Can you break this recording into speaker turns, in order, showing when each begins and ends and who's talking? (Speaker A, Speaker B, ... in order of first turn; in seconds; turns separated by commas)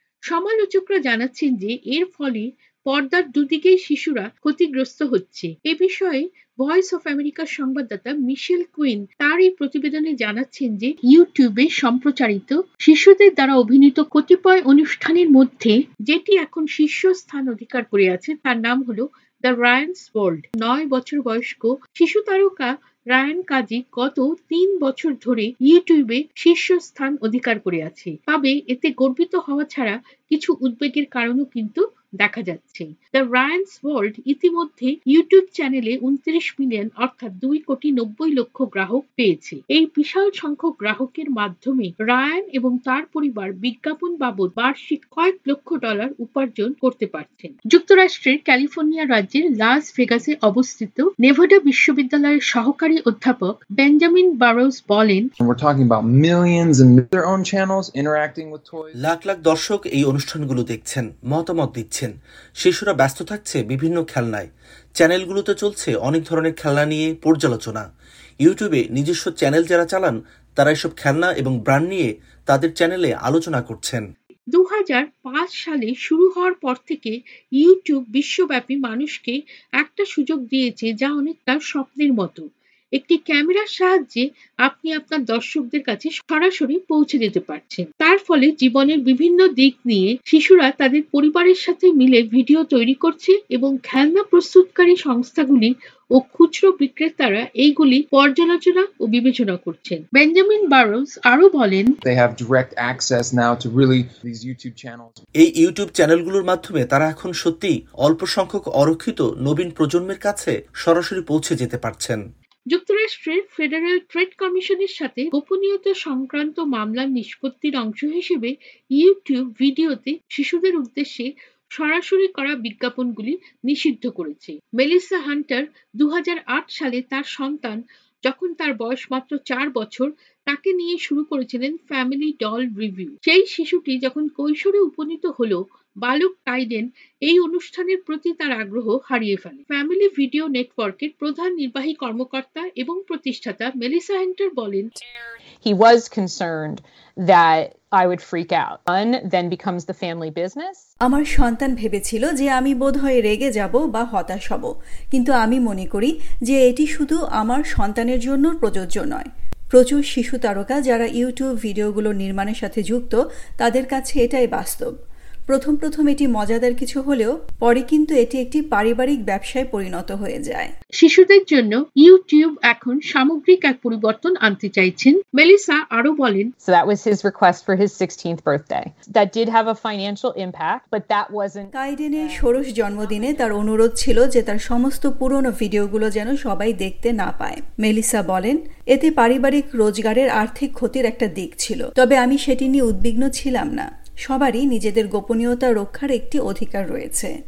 Speaker A: 0.3-55.3, Speaker B: 55.4-59.0, Speaker C: 59.0-67.8, Speaker C: 68.4-74.0, Speaker A: 74.5-82.5, Speaker A: 83.0-101.9, Speaker B: 102.0-105.2, Speaker C: 105.4-112.2, Speaker A: 112.7-144.9, Speaker D: 145.6-150.9, Speaker E: 151.1-164.9, Speaker E: 165.5-170.7, Speaker A: 171.0-176.5, Speaker D: 176.6-183.6, Speaker E: 181.8-197.3